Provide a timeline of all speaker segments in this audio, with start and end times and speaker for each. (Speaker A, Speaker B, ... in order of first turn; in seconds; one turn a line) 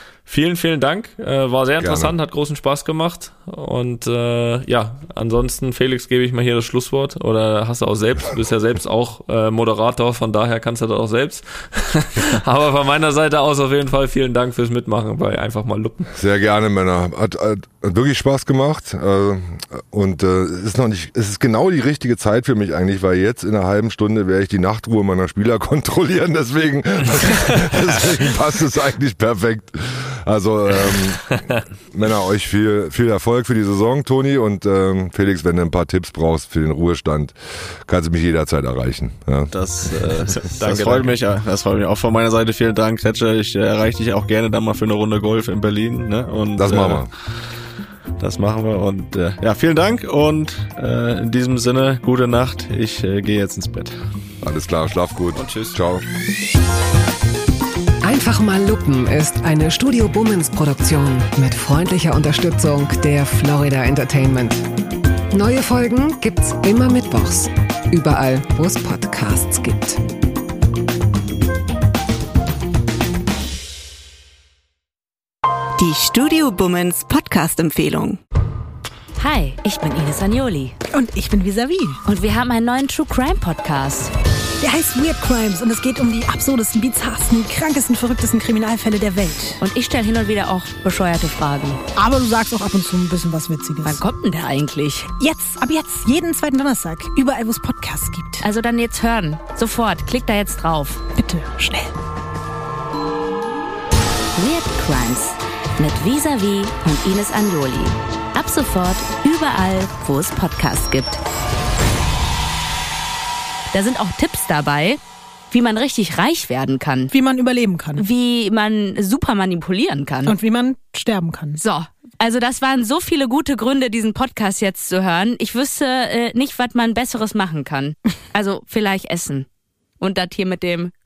Speaker A: 0.3-16.1
Speaker B: 1.8-2.1
Speaker B: 16.1-39.5
Speaker C: 39.5-47.1
Speaker A: 40.3-41.1
Speaker B: 46.6-47.1
Speaker C: 48.2-54.0
Speaker B: 54.4-56.0
Speaker A: 55.4-55.8
Speaker D: 58.0-64.7
Speaker D: 65.3-70.0
Speaker E: 75.8-78.2
Speaker F: 79.2-80.8
Speaker G: 80.9-82.0
Speaker F: 82.1-84.1
Speaker G: 84.6-89.6
Speaker F: 89.6-91.8
Speaker G: 92.0-94.0
Speaker F: 93.8-95.1
Speaker G: 95.2-98.5
Speaker F: 98.4-101.0
Speaker G: 101.2-102.0
Speaker F: 104.3-111.2
Speaker F: 113.7-115.0
Speaker F: 115.5-117.1
Speaker G: 117.1-118.0
Speaker F: 118.0-120.3
Speaker G: 120.3-121.6
Speaker F: 121.6-129.5
Speaker F: 130.0-130.9